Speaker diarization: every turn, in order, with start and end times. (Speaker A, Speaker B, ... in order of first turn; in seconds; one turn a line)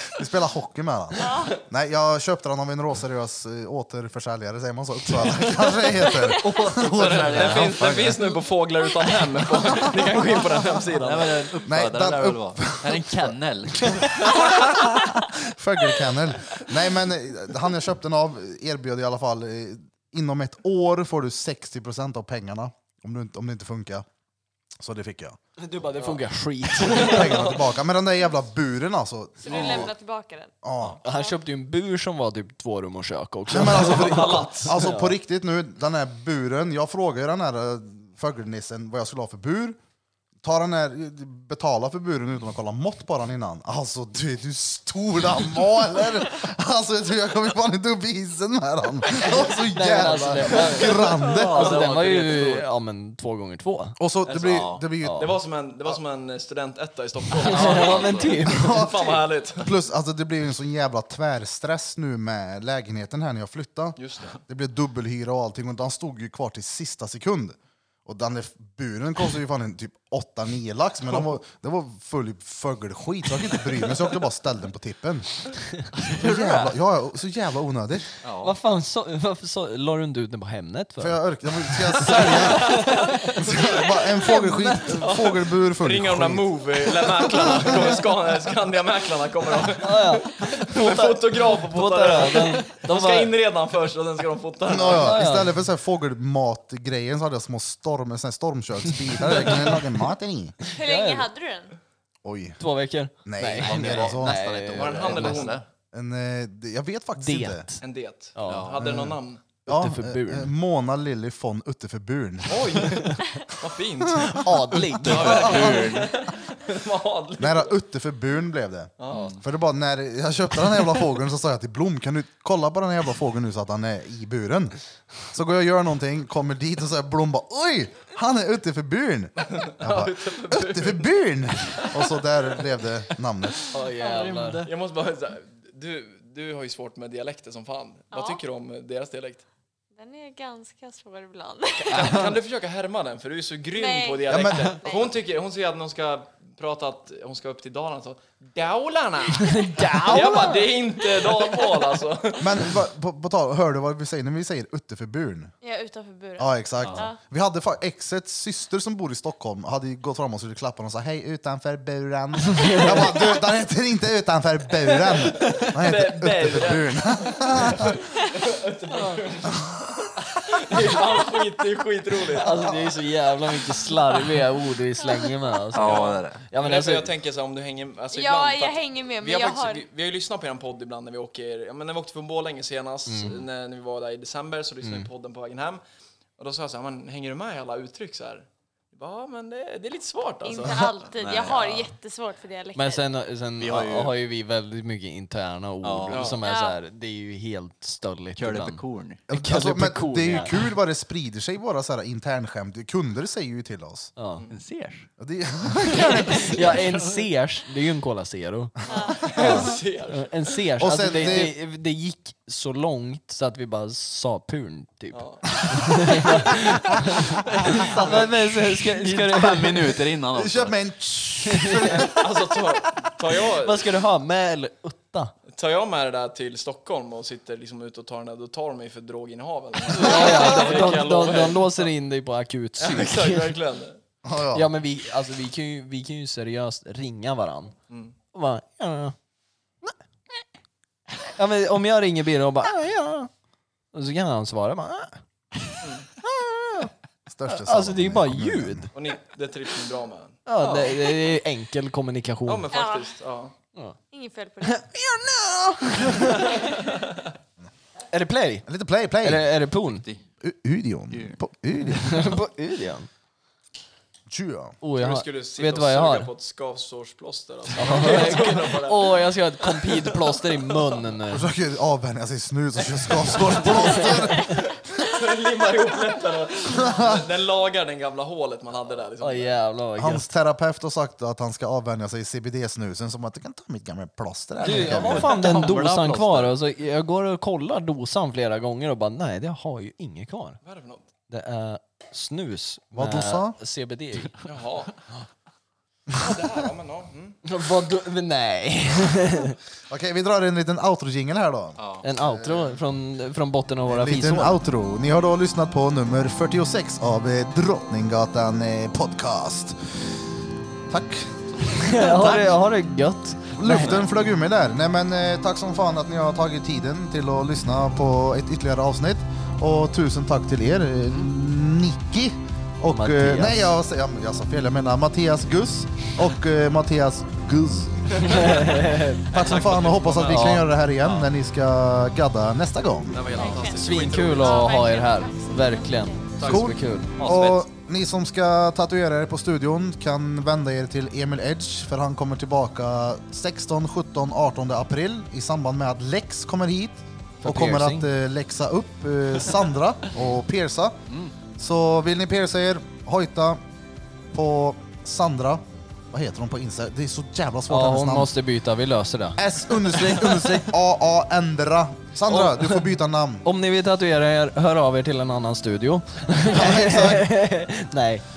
Speaker A: 0.1-8.4
Speaker B: 1.2-1.6
Speaker B: 6.0-6.7
Speaker C: 6.8-11.5
Speaker A: 9.8-10.6
Speaker D: 10.9-14.7
Speaker A: 11.7-24.0
Speaker A: 24.8-25.4
Speaker E: 25.6-27.5
Speaker C: 26.8-27.7
Speaker A: 26.8-29.9
Speaker B: 29.4-31.3
Speaker D: 29.6-29.8
Speaker A: 30.6-31.0
Speaker E: 31.0-35.2
Speaker A: 33.5-39.8
Speaker C: 33.6-34.8
Speaker A: 40.4-51.7
Speaker E: 49.1-54.0
Speaker D: 50.8-52.6
Speaker C: 51.5-52.0
Speaker A: 54.0-55.3
Speaker C: 54.2-59.8
Speaker D: 54.4-54.8
Speaker E: 55.0-55.3
Speaker D: 57.4-58.5
Speaker E: 57.4-58.9
Speaker A: 58.5-75.5
Speaker C: 64.0-64.4
Speaker D: 76.0-76.7
Speaker A: 76.1-78.1
Speaker D: 78.2-78.6
Speaker E: 78.4-83.6
Speaker A: 81.0-86.6
Speaker C: 82.5-83.9
Speaker E: 84.3-85.0
Speaker C: 84.9-95.3
Speaker A: 87.1-87.8
Speaker E: 89.7-93.3
Speaker A: 94.7-100.5
Speaker E: 94.8-95.5
Speaker C: 99.3-99.8
Speaker B: 100.7-101.8
Speaker E: 100.7-101.3
Speaker A: 102.2-102.6
Speaker E: 102.6-105.5
Speaker A: 103.2-104.4
Speaker D: 103.5-105.6
Speaker C: 104.7-105.6
Speaker A: 105.9-107.7
Speaker E: 107.2-107.8
Speaker C: 107.8-109.4
Speaker E: 108.3-108.7
Speaker D: 108.5-108.8
Speaker A: 108.8-113.1
Speaker E: 109.7-110.5
Speaker C: 112.5-117.7
Speaker A: 114.1-114.9
Speaker E: 114.3-115.8
Speaker D: 114.8-116.1
Speaker A: 115.4-115.7
Speaker A: 117.4-133.7
Speaker C: 119.0-119.3
Speaker D: 119.1-119.4
Speaker C: 129.4-132.1
Speaker E: 133.7-134.7
Speaker D: 134.0-134.7
Speaker C: 134.6-139.4
Speaker B: 138.1-138.4
Speaker B: 139.9-142.1
Speaker C: 141.8-152.7
Speaker D: 142.1-142.3
Speaker B: 143.7-145.1
Speaker A: 144.3-144.8
Speaker B: 149.4-150.6
Speaker E: 149.4-150.7
Speaker B: 151.2-151.8
Speaker A: 152.4-155.5
Speaker B: 155.6-157.2
Speaker A: 156.4-167.9
Speaker E: 162.6-163.1
Speaker C: 164.9-172.7
Speaker E: 172.3-177.1
Speaker B: 175.0-175.7
Speaker D: 175.7-176.4
Speaker C: 175.8-185.8
Speaker B: 178.1-179.8
Speaker E: 183.1-183.4
Speaker E: 184.8-185.1
Speaker C: 186.4-190.9
Speaker B: 190.4-193.1
Speaker D: 191.0-191.9
Speaker E: 192.7-200.7
Speaker D: 193.6-194.1
Speaker D: 195.8-196.3
Speaker C: 196.1-196.4
Speaker B: 196.4-196.8
Speaker D: 198.3-199.2
Speaker A: 199.3-204.1
Speaker E: 204.2-204.4
Speaker D: 204.5-205.1
Speaker A: 205.2-206.8
Speaker E: 205.8-220.1
Speaker D: 206.0-207.2
Speaker B: 208.9-209.6
Speaker C: 208.9-211.5
Speaker A: 210.8-211.5
Speaker C: 215.1-216.1
Speaker D: 217.6-220.8
Speaker A: 220.3-223.1
Speaker E: 221.5-222.1
Speaker C: 222.1-223.9
Speaker E: 223.6-225.3
Speaker C: 225.5-231.9
Speaker E: 229.9-233.5
Speaker A: 230.1-230.3
Speaker C: 232.8-234.0
Speaker A: 234.2-234.7
Speaker E: 234.5-237.7
Speaker C: 237.9-238.1
Speaker E: 238.3-239.1
Speaker E: 241.2-243.3
Speaker E: 243.9-245.2
Speaker C: 245.8-246.1
Speaker E: 246.2-246.9
Speaker A: 247.3-248.9
Speaker E: 247.5-248.9
Speaker C: 248.9-251.3
Speaker E: 250.4-252.7
Speaker C: 252.4-253.5
Speaker B: 252.7-253.1
Speaker B: 254.1-254.8
Speaker E: 254.6-256.8
Speaker B: 256.4-256.9
Speaker E: 258.1-258.7
Speaker A: 258.6-259.4
Speaker E: 259.2-260.1
Speaker D: 259.9-260.2
Speaker A: 260.4-262.4
Speaker D: 261.1-261.4
Speaker E: 262.0-263.1
Speaker A: 264.3-264.8
Speaker E: 264.8-266.3
Speaker C: 265.0-270.4
Speaker E: 267.8-271.5
Speaker A: 271.3-274.7
Speaker C: 273.2-279.6
Speaker E: 273.6-274.2
Speaker A: 276.8-277.2
Speaker E: 279.2-280.3
Speaker A: 280.0-285.3
Speaker E: 284.6-290.6
Speaker D: 284.6-286.5
Speaker C: 290.6-291.1
Speaker E: 291.3-294.3
Speaker A: 292.9-293.6
Speaker C: 294.4-295.0
Speaker C: 296.2-297.4
Speaker E: 297.4-299.6
Speaker A: 299.9-302.8
Speaker D: 301.8-302.0
Speaker E: 302.0-304.6
Speaker A: 303.9-310.1
Speaker A: 310.9-312.5
Speaker E: 311.8-314.0
Speaker A: 313.6-328.6
Speaker E: 322.9-323.6
Speaker C: 328.2-330.6
Speaker E: 328.2-329.2
Speaker A: 329.3-333.4
Speaker E: 330.2-330.7
Speaker C: 333.1-334.6
Speaker B: 333.3-336.4
Speaker E: 333.6-337.1
Speaker D: 336.4-337.6
Speaker A: 336.4-351.0
Speaker E: 347.4-348.1
Speaker A: 351.6-353.6
Speaker A: 354.3-358.3
Speaker E: 357.7-360.7
Speaker A: 359.4-363.4
Speaker E: 362.3-368.2
Speaker A: 366.4-367.4